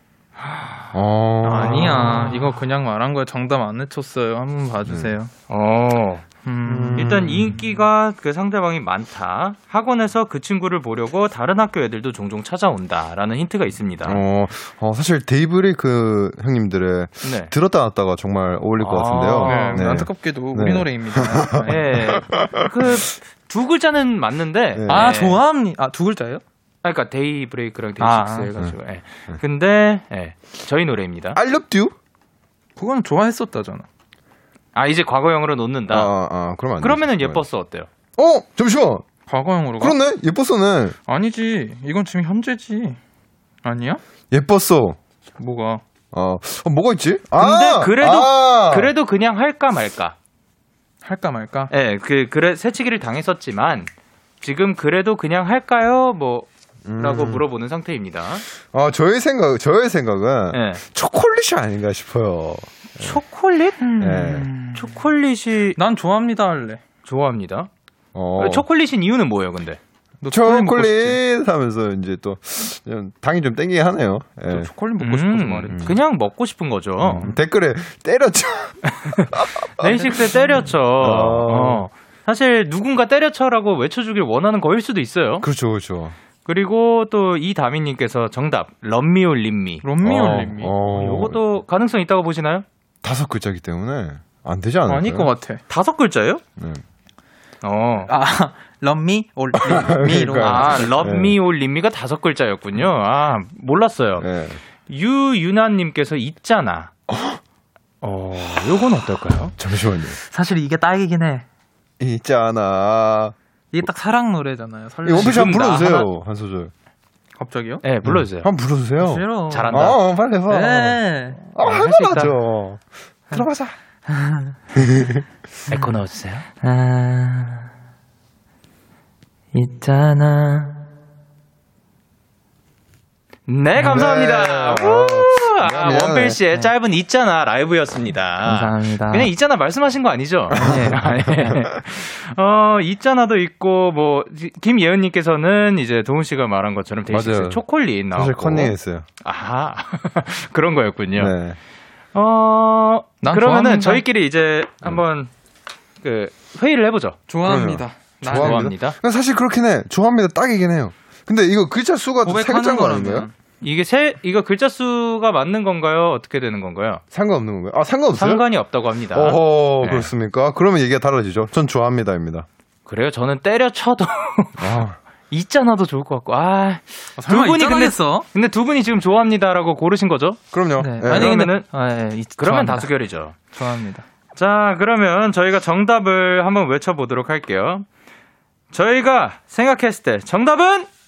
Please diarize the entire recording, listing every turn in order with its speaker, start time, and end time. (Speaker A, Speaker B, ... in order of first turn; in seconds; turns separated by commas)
Speaker A: 0.4-0.9, Speaker B: 0.9-2.4, Speaker C: 1.4-5.3, Speaker A: 1.6-2.4, Speaker B: 4.9-5.1, Speaker A: 5.5-6.3, Speaker C: 6.5-7.2, Speaker B: 6.7-7.6, Speaker A: 7.0-14.2, Speaker B: 14.0-22.9, Speaker A: 17.2-17.5, Speaker A: 18.8-19.9, Speaker C: 19.4-22.1, Speaker A: 21.7-25.4, Speaker B: 24.8-25.2, Speaker C: 24.9-26.4, Speaker A: 26.8-31.4, Speaker C: 28.0-28.5, Speaker B: 31.4-31.9, Speaker C: 32.8-33.9, Speaker A: 34.8-36.1, Speaker B: 35.9-37.4, Speaker A: 36.8-37.9, Speaker B: 38.2-39.0, Speaker C: 39.3-40.0, Speaker B: 39.8-41.0, Speaker C: 41.1-43.0, Speaker C: 43.6-44.0, Speaker B: 44.3-45.0, Speaker C: 45.4-45.8, Speaker B: 46.1-48.9, Speaker A: 47.4-50.1, Speaker C: 51.0-51.7, Speaker A: 51.7-53.9, Speaker A: 54.4-56.5, Speaker B: 56.9-57.5, Speaker A: 57.0-58.5, Speaker B: 58.7-63.2, Speaker A: 60.5-60.8, Speaker A: 63.0-63.8, Speaker C: 63.8-65.0, Speaker B: 64.0-64.5, Speaker A: 64.7-65.8, Speaker C: 65.8-66.8, Speaker A: 67.1-67.7, Speaker B: 68.1-68.7, Speaker A: 68.4-69.8, Speaker C: 70.2-71.2, Speaker B: 70.3-74.7, Speaker C: 74.5-75.9, Speaker A: 75.0-77.3, Speaker B: 75.7-76.0, Speaker B: 77.0-80.0, Speaker A: 78.9-79.3, Speaker A: 79.8-85.5, Speaker C: 79.8-80.5, Speaker B: 81.0-81.8, Speaker B: 85.4-86.2, Speaker A: 86.5-89.8, Speaker C: 89.8-90.8, Speaker B: 90.0-91.4, Speaker A: 90.9-92.7, Speaker B: 93.0-95.3, Speaker C: 94.9-95.6, Speaker A: 95.7-96.4, Speaker A: 97.6-98.1, Speaker C: 98.1-101.0, Speaker B: 99.5-101.4, Speaker A: 100.4-104.3, Speaker B: 104.2-104.6, Speaker A: 104.9-106.9, Speaker B: 107.1-107.4, Speaker A: 108.0-109.5, Speaker B: 109.6-110.2, Speaker C: 110.2-111.5, Speaker B: 112.0-113.3, Speaker C: 113.7-115.6, Speaker B: 115.0-116.7, Speaker A: 115.1-116.1, Speaker C: 117.4-117.8, Speaker A: 117.8-118.5, Speaker B: 118.0-123.7, Speaker C: 119.0-120.0, Speaker A: 119.5-120.0, Speaker C: 120.5-121.4, Speaker A: 121.6-122.3, Speaker C: 124.1-124.6, Speaker B: 124.8-125.2, Speaker A: 125.7-126.5, Speaker C: 126.6-127.7, Speaker C: 129.5-130.8, Speaker A: 133.5-151.3, Speaker C: 133.8-134.1, Speaker B: 133.8-136.4, Speaker C: 138.4-139.3, Speaker B: 140.5-141.6, Speaker C: 140.6-141.5, Speaker B: 147.1-149.1, Speaker B: 151.2-151.6, Speaker A: 152.1-155.3, Speaker C: 153.2-154.0, Speaker A: 156.0-157.2, Speaker C: 157.3-158.7, Speaker B: 157.4-163.3, Speaker A: 158.2-159.0, Speaker C: 162.2-163.3, Speaker A: 163.6-167.0, Speaker B: 167.1-168.4, Speaker A: 168.2-170.1, Speaker B: 169.1-172.5, Speaker A: 172.9-180.4, Speaker B: 174.6-175.0, Speaker C: 177.2-178.3, Speaker B: 180.5-181.4, Speaker C: 180.8-182.9, Speaker A: 181.1-181.7, Speaker A: 182.4-183.4, Speaker C: 183.5-184.1, Speaker A: 184.4-187.8, Speaker A: 188.7-190.9